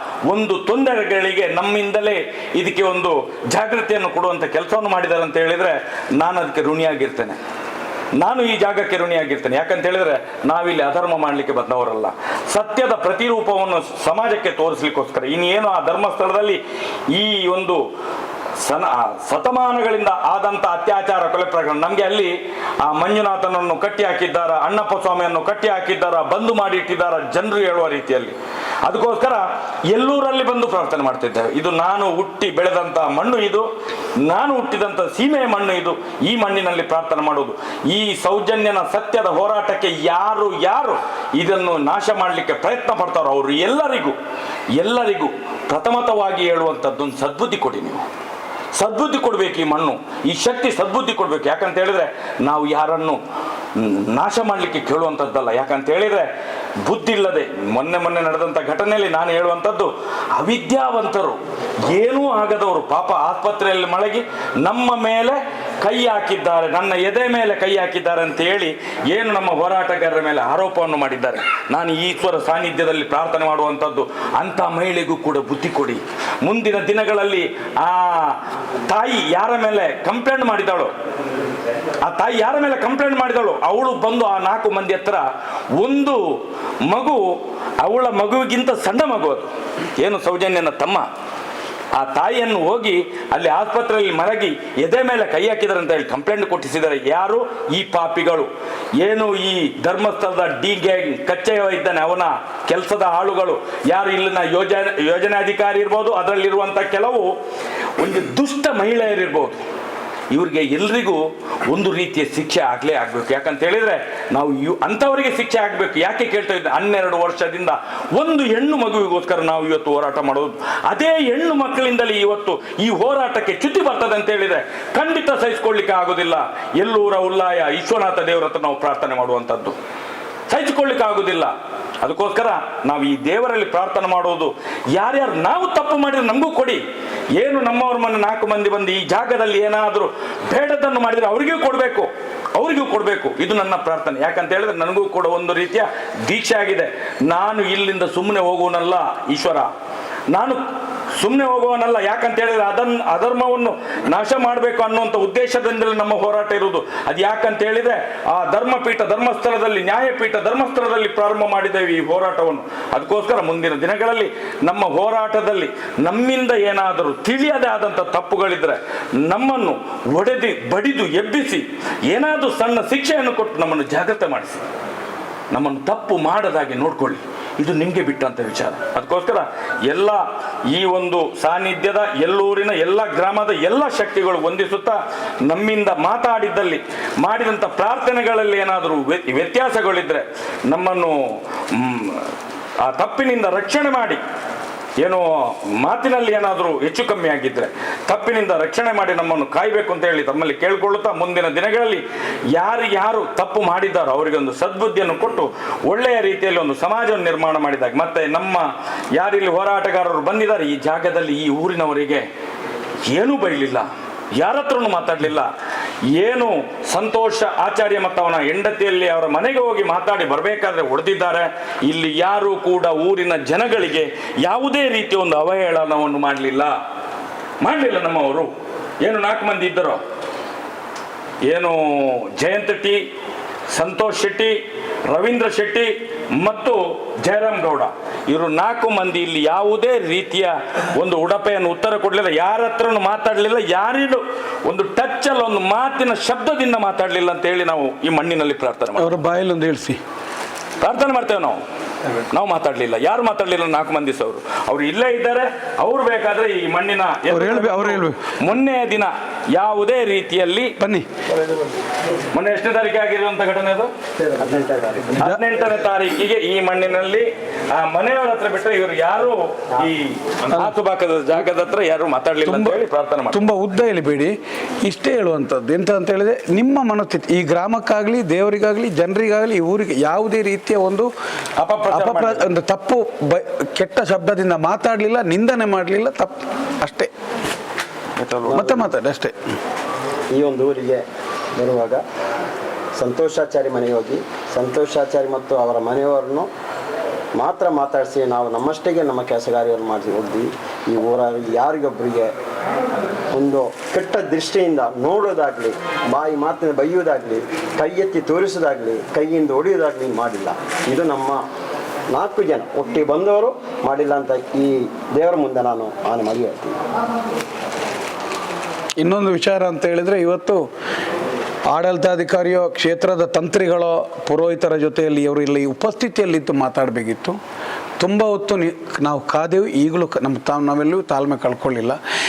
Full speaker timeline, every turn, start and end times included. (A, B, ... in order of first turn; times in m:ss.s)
0:00.3-0:07.4 A
0:08.2-0:17.8 A
0:18.6-0:33.7 A
0:34.2-0:44.2 A
0:44.8-0:48.0 A
0:48.8-0:53.2 A
0:53.8-0:56.3 A
0:56.8-1:20.9 A
1:22.0-1:26.2 A
1:26.9-1:31.1 A
1:32.0-1:47.3 A
1:48.0-1:49.6 A
1:50.3-2:09.8 A
2:10.5-2:16.8 A
2:17.4-2:29.7 A
2:30.3-2:54.6 A
2:55.5-3:14.2 A
3:15.0-3:22.0 A
3:22.6-3:32.2 A
3:33.0-3:35.5 A
3:36.2-3:46.8 A
3:47.6-3:50.0 A
3:51.5-3:53.0 A
3:53.7-4:09.2 A
4:09.0-4:10.0 B
4:10.8-4:11.6 A
4:12.3-4:20.7 A
4:17.3-4:18.4 B
4:20.8-4:21.1 B
4:22.3-4:23.9 A
4:24.4-4:25.1 C
4:25.2-4:33.4 A
4:32.4-4:41.1 B
4:41.6-4:42.5 A
4:41.9-4:47.1 B
4:48.2-4:48.9 A
4:48.5-4:49.3 B
4:50.3-4:51.0 C
4:51.6-4:52.0 C
4:53.0-4:56.5 C
4:57.4-5:02.3 C
5:03.3-5:11.4 C
5:12.1-5:16.8 C
5:19.0-5:20.6 B
5:21.7-5:27.4 B
5:28.0-5:32.0 B